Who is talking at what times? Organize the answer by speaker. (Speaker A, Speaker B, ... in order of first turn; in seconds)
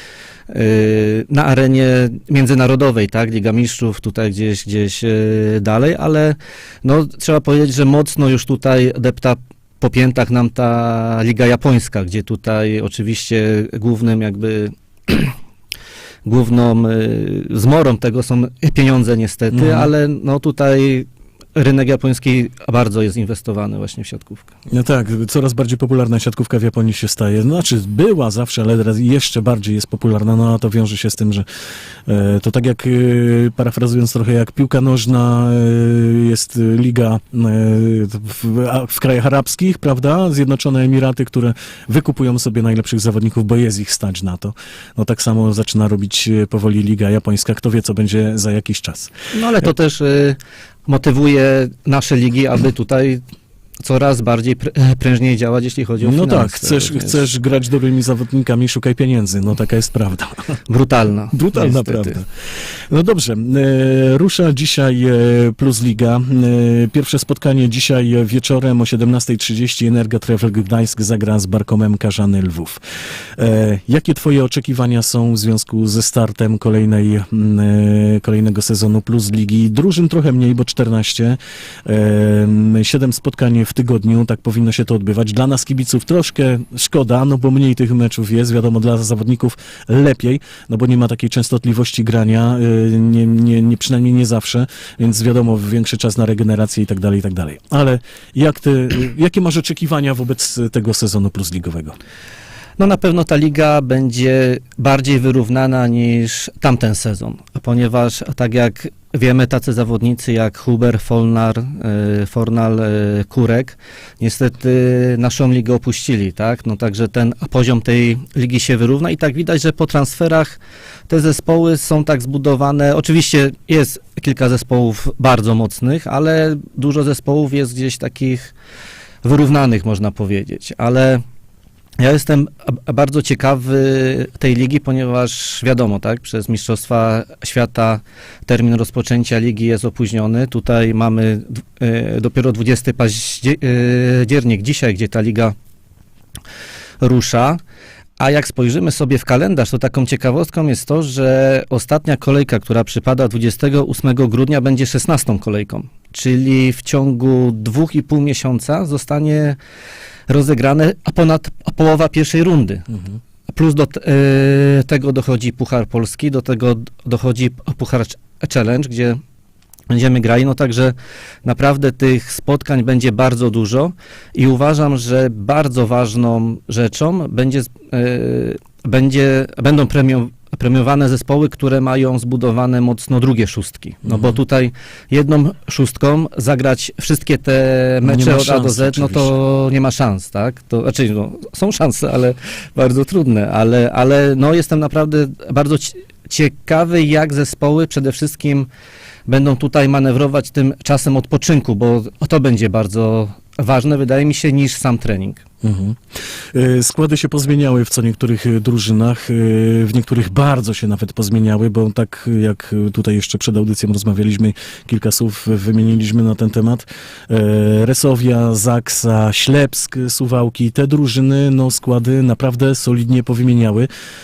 Speaker A: 0.5-15.4, 16.2-24.5, 49.3-53.2, 53.8-57.2, 60.7-62.2, 102.8-120.6, 121.1-128.5, 129.2-131.2, 132.0-145.6, 147.0-147.6, 148.2-159.6, 160.3-162.9, 163.5-169.2, 169.9-198.7, 199.3-205.4
Speaker B: 19.5-19.9, 24.7-31.4, 32.1-49.1, 56.0-60.5, 61.3-62.3, 62.9-72.8, 73.4-102.0, 184.1-184.4, 188.0-189.3, 205.6-206.0, 206.5-223.9